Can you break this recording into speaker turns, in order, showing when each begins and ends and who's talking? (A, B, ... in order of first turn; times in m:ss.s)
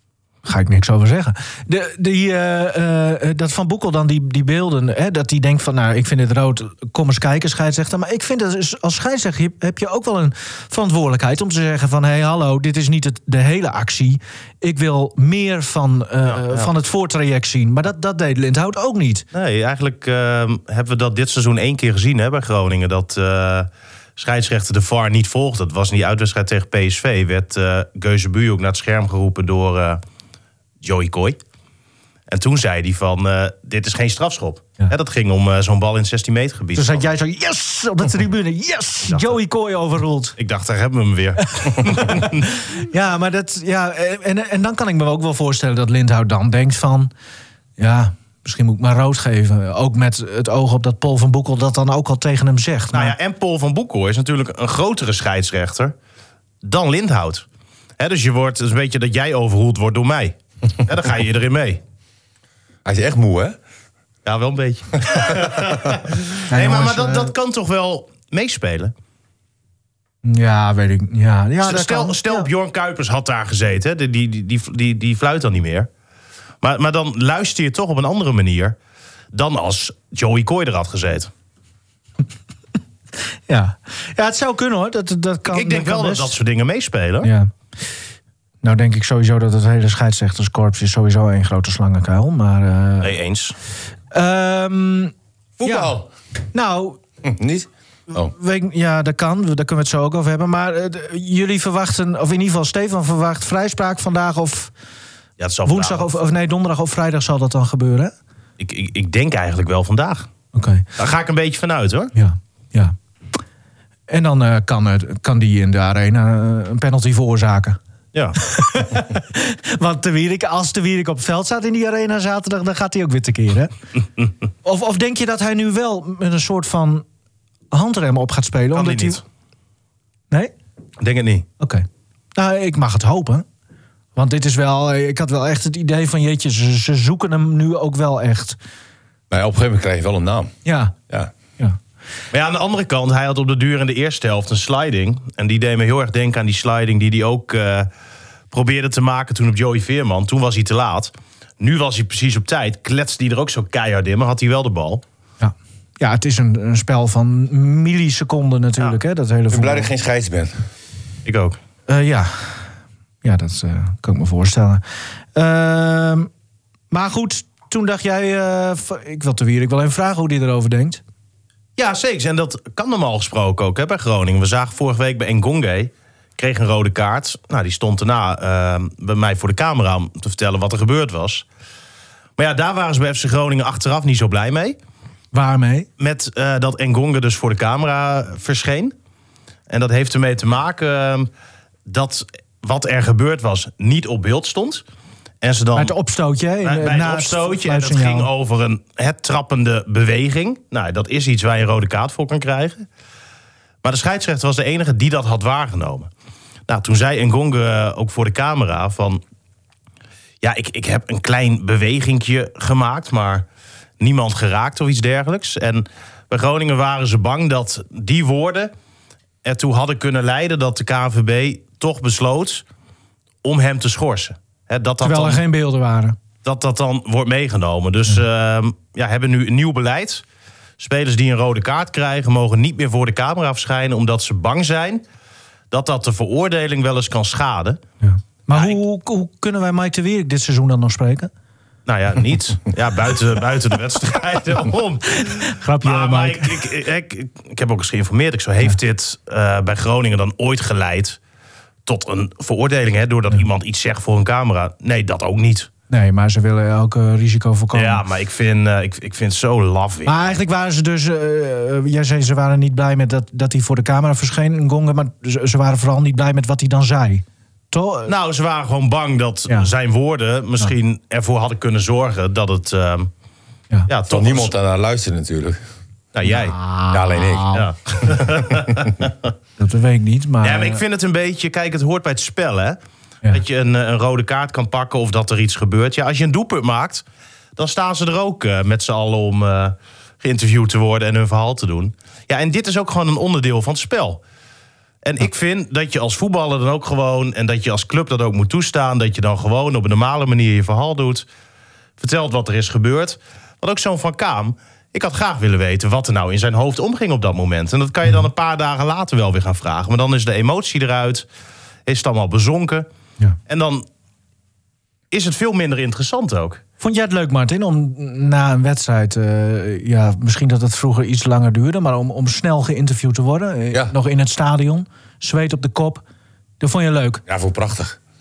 0:00.5-0:19.2 A
0:16.2-0:16.7 B
0:19.3-0:30.0 B
0:30.8-0:31.4 B
0:32.3-0:37.0 B
0:36.8-0:40.4 A
0:39.1-0:39.4 B
0:40.4-0:42.5 B
0:41.6-0:47.1 A
0:47.8-0:53.1 A
0:52.9-0:55.9 B
0:56.6-0:57.4 B
0:58.0-1:01.8 B
1:02.8-1:03.6 C
1:04.2-1:08.9 B
1:06.5-1:07.3 A
1:10.2-1:12.5 A
1:11.6-1:15.9 B
1:16.6-1:18.8 B
1:19.3-1:21.3 B
1:23.5-1:26.4 A
1:25.5-1:27.3 B
1:27.2-1:27.5 A
1:28.6-1:33.2 A
1:33.0-1:33.5 B
1:34.1-1:36.0 A
1:35.6-1:36.1 C
1:36.5-1:37.0 A
1:37.2-1:38.3 C
1:38.1-1:44.7 A
1:45.4-1:46.2 B
1:45.6-1:48.1 A
1:48.6-1:50.3 B
1:50.5-1:50.8 A
1:51.0-1:52.1 B
1:52.1-1:53.0 A
1:54.1-1:57.8 A
1:58.4-2:03.7 A
2:04.6-2:07.0 A
2:07.7-2:09.2 A
2:08.7-2:09.2 B
2:11.0-2:11.5 B
2:11.6-2:11.8 A
2:12.4-2:13.4 A
2:14.2-2:18.6 A
2:19.3-2:20.5 C
2:20.6-2:21.0 A
2:22.3-2:27.9 B
2:28.5-2:35.0 B
2:35.4-2:39.9 A
2:39.5-2:40.6 C
2:41.2-2:41.6 B
2:41.9-2:42.6 A
2:43.2-2:44.8 A
2:45.4-2:46.3 A
2:46.9-2:51.0 A
2:51.8-3:01.4 B
3:02.4-3:04.8 B
3:05.3-3:05.9 A
3:06.0-3:09.0 B
3:09.7-3:11.3 B
3:11.9-3:14.8 B
3:15.4-3:15.9 B
3:15.8-3:18.3 A
3:16.6-3:22.9 B
3:23.8-3:26.1 B
3:26.7-3:29.2 B
3:30.4-3:33.5 B
3:34.0-3:38.7 B
3:39.4-3:42.6 B
3:43.4-3:45.4 B
3:45.0-3:46.2 A
3:46.4-3:50.2 B
3:50.8-3:55.0 B
3:55.7-3:57.8 B
3:58.0-4:01.3 A
3:58.5-3:58.8 B
4:01.9-4:11.2 B
4:05.1-4:06.6 A
4:11.9-4:15.7 B
4:15.9-4:18.0 A
4:17.7-4:20.3 B
4:20.0-4:28.1 A
4:28.1-4:33.1 B
4:33.9-4:34.5 B
4:34.1-4:35.6 C
4:36.1-4:36.6 B
4:36.2-4:37.7 A
4:36.9-4:37.6 C
4:37.5-4:39.1 B
4:39.6-4:40.8 A
4:40.4-4:42.8 B
4:43.3-4:47.0 B
4:47.6-4:54.2 B
4:55.0-5:01.2 B
5:02.0-5:11.3 B
5:11.9-5:12.9 B
5:13.5-5:13.8 B
5:15.1-5:16.6 B
5:16.8-5:26.0 A
5:26.6-5:27.2 A
5:27.3-5:28.0 C